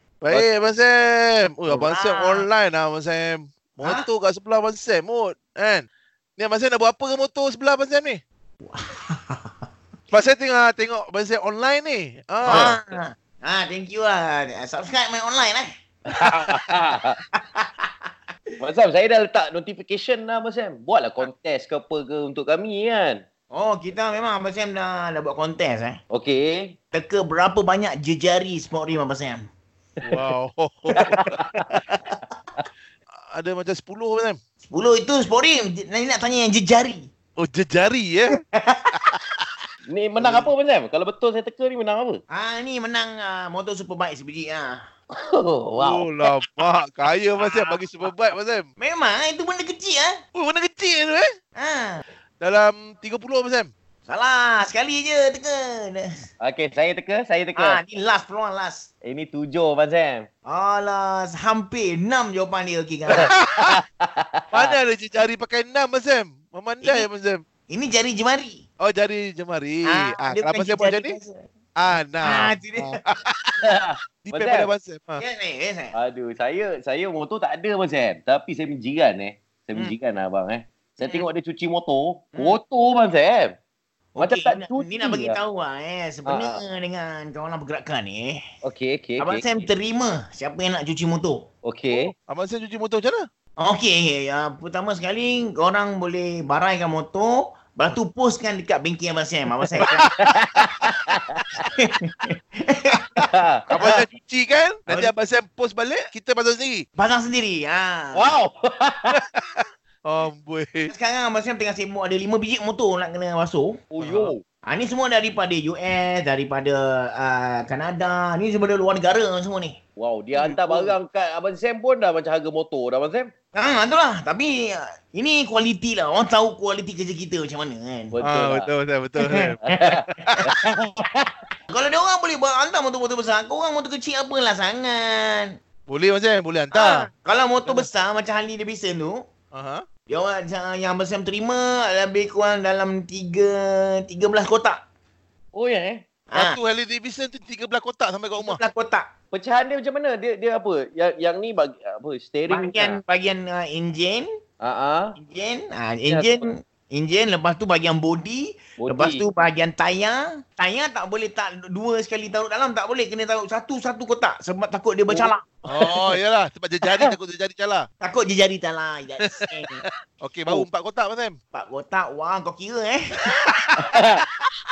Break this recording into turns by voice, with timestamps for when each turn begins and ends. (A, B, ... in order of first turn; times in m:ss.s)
0:00.2-0:08.2 A
0:01.7-0:02.5 B
0:08.6-0:09.5 B
0:10.1-0:12.8 A
0:12.4-0:15.7 B
0:12.5-0:12.8 C
0:16.2-0:17.2 C
0:17.4-0:17.9 B
0:18.6-0:23.2 C
0:23.5-0:26.0 B
0:26.1-0:26.8 C
0:26.9-0:29.4 B
0:30.0-0:31.3 A
0:31.0-0:31.3 B
0:31.0-0:31.8 C
0:33.2-0:34.4 A
0:34.6-0:37.1 B
0:37.4-0:38.4 A
0:39.0-0:39.4 A
0:39.9-0:42.2 C
0:40.2-0:40.5 B
0:42.3-0:44.8 B
0:45.2-0:46.3 C
0:45.8-0:48.7 A
0:47.4-0:47.8 B
0:48.8-0:50.2 B
0:50.4-0:51.3 A
0:51.6-0:52.0 B
0:52.4-0:53.7 A
0:54.1-0:56.1 B
0:56.4-0:57.8 C
0:57.6-0:58.9 B
0:59.0-1:00.3 C
1:00.5-1:03.3 B
1:03.1-1:03.7 A
1:03.1-1:04.8 C
1:04.5-1:07.4 A
1:06.8-1:07.1 B
1:07.7-1:08.6 B
1:08.8-1:11.2 A
1:09.9-1:11.5 B
1:11.8-1:13.6 A
1:12.2-1:13.0 B
1:13.6-1:14.7 C
1:14.2-1:15.2 A
1:15.2-1:16.0 B
1:15.9-1:23.6 C
1:21.0-1:21.3 B
1:22.4-1:22.6 B
1:24.2-1:28.4 B
1:24.2-1:25.4 C
1:26.3-1:26.6 C
1:28.6-1:29.5 C
1:29.2-1:31.4 B
1:31.6-1:32.1 C
1:31.9-1:33.3 A
1:33.6-1:40.1 B
1:39.8-1:41.4 C
1:41.8-1:43.2 B
1:43.3-1:44.0 C
1:43.7-1:46.8 A
1:47.0-1:48.3 B
1:48.1-1:49.2 C
1:49.1-1:50.9 A
1:50.9-1:53.8 B
1:53.9-1:54.4 C
1:54.0-1:54.3 A
1:54.7-1:59.8 B
2:00.0-2:03.3 C
2:00.4-2:00.9 A
2:03.6-2:08.2 B
2:08.1-2:08.7 C
2:08.2-2:10.4 A
2:09.6-2:11.3 C
2:11.7-2:15.5 B
2:15.9-2:17.1 A
2:16.7-2:19.2 B
2:19.5-2:19.8 A
2:20.1-2:24.8 B
2:25.5-2:26.0 C
2:26.3-2:26.6 B
2:26.4-2:28.6 A
2:28.4-2:29.1 B
2:29.3-2:33.0 C
2:32.5-2:34.3 B
2:34.6-2:35.2 C
2:35.2-2:45.5 B
2:36.1-2:36.5 C
2:38.8-2:39.2 C
2:45.1-2:46.0 C
2:45.7-2:47.9 A
2:48.0-2:49.8 B
2:49.2-2:51.4 A
2:51.5-2:53.4 B
2:53.8-2:54.2 C